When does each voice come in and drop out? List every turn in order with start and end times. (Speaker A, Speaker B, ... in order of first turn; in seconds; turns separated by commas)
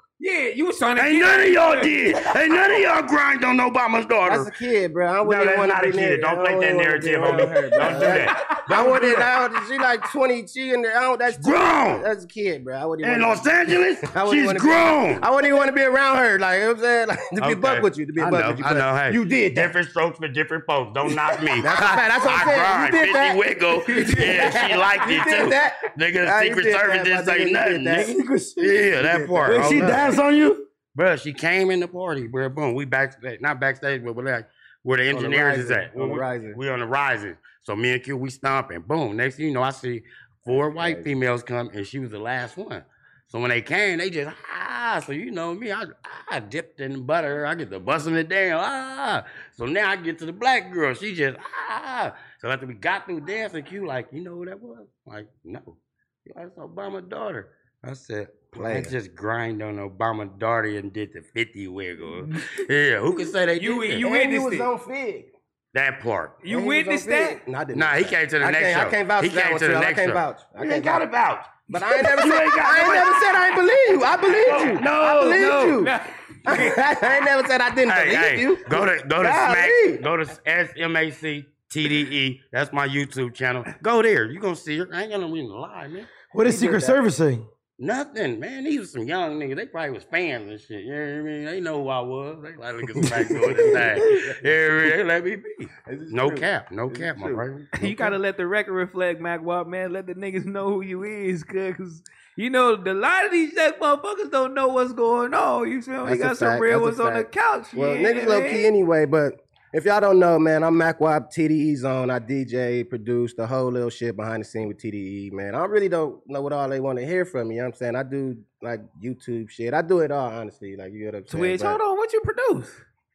Speaker A: 0.2-2.0, Speaker B: 1.0-4.5, Speaker C: 4.2-13.6, Speaker B: 5.2-9.1, Speaker A: 7.8-9.2, Speaker B: 11.3-12.1, Speaker B: 13.0-15.3, Speaker C: 14.1-19.7, Speaker B: 17.4-28.1, Speaker C: 21.6-28.1, Speaker A: 23.9-24.6, Speaker D: 28.0-28.8, Speaker B: 28.6-30.2, Speaker C: 28.9-30.1, Speaker D: 29.4-30.6, Speaker B: 30.9-64.0, Speaker C: 35.1-36.6, Speaker C: 40.8-41.1, Speaker C: 58.5-58.9, Speaker A: 63.6-64.7, Speaker C: 64.0-65.3, Speaker B: 65.7-66.4, Speaker A: 66.4-67.4, Speaker C: 66.5-71.0, Speaker B: 67.7-73.2, Speaker C: 71.7-75.9, Speaker B: 74.4-75.9, Speaker A: 75.8-76.8, Speaker C: 76.5-80.0, Speaker B: 77.9-86.1, Speaker D: 86.3-87.5, Speaker C: 86.4-87.0, Speaker B: 87.8-97.8, Speaker C: 93.0-94.3, Speaker C: 95.9-98.1, Speaker A: 97.7-108.7, Speaker C: 106.0-121.8, Speaker A: 121.3-122.8